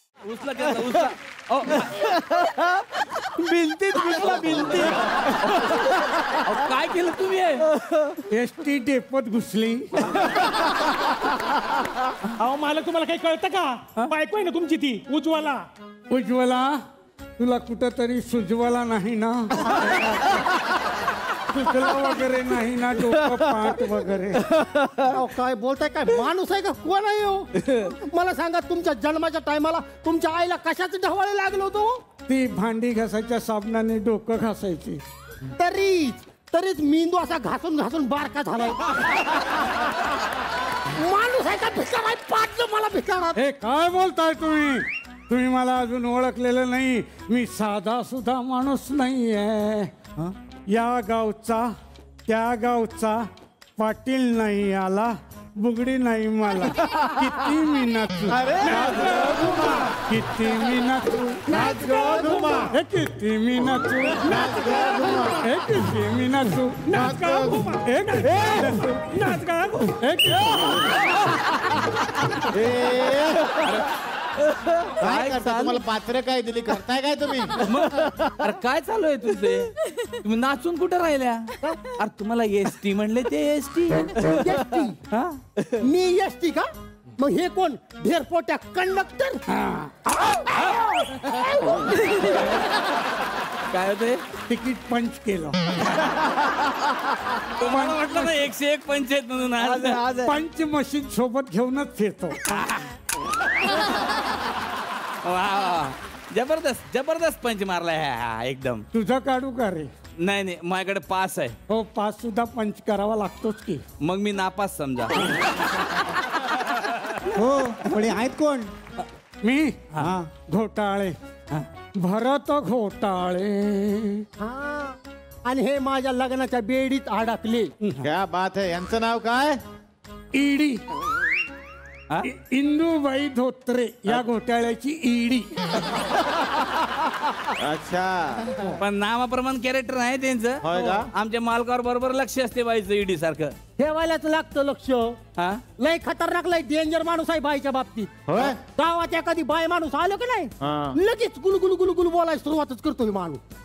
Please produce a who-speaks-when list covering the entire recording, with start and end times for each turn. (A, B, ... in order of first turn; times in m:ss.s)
0:00.3-0:02.5 A
0:03.2-0:07.7 A
0:08.3-0:10.1 B
0:12.4-0:15.6 C
0:16.1-0:16.8 B
0:17.4-0:20.2 B
0:21.5-0:24.5 B
0:25.0-0:32.0 D
0:32.3-0:35.0 B
0:35.6-0:38.8 D
0:40.9-0:43.4 D
0:43.4-0:49.9 B
0:50.7-0:51.7 B
0:52.3-0:53.3 B
0:53.8-0:59.0 B
0:58.3-0:59.9 E
0:58.6-0:59.8 C
0:59.9-1:01.6 B
1:01.5-1:02.7 E
1:01.5-1:02.7 C
1:02.7-1:04.4 B
1:04.2-1:05.4 E
1:04.7-1:05.1 C
1:05.4-1:06.9 B
1:06.9-1:10.0 C
1:06.9-1:07.7 E
1:07.8-1:08.9 B
1:10.0-1:10.8 B
1:12.5-1:13.5 E
1:14.4-1:15.8 A
1:15.0-1:17.5 E
1:17.6-1:24.6 A
1:24.3-1:25.0 D
1:25.1-1:25.8 A
1:25.8-1:29.4 D
1:29.5-1:30.2 B
1:30.6-1:30.8 A
1:32.0-1:32.6 A
1:33.7-1:34.2 A
1:34.5-1:35.8 B
1:37.6-1:40.3 A
1:37.6-1:38.4 B
1:39.8-1:42.6 B
1:42.5-1:42.9 A
1:45.2-1:48.8 A
1:48.9-1:49.9 B
1:50.2-1:51.6 A
1:51.7-1:53.8 B
1:54.0-1:55.3 A
1:57.3-1:58.7 E
1:59.4-2:01.1 B
2:02.0-2:04.2 B
2:04.4-2:07.7 D
2:08.0-2:09.6 E
2:10.3-2:10.8 B
2:12.2-2:15.8 B
2:17.6-2:18.6 E
2:18.7-2:23.5 A
2:20.6-2:21.1 E
2:23.8-2:25.2 D
2:25.8-2:33.4 D
2:28.3-2:28.6 E
2:30.6-2:31.0 E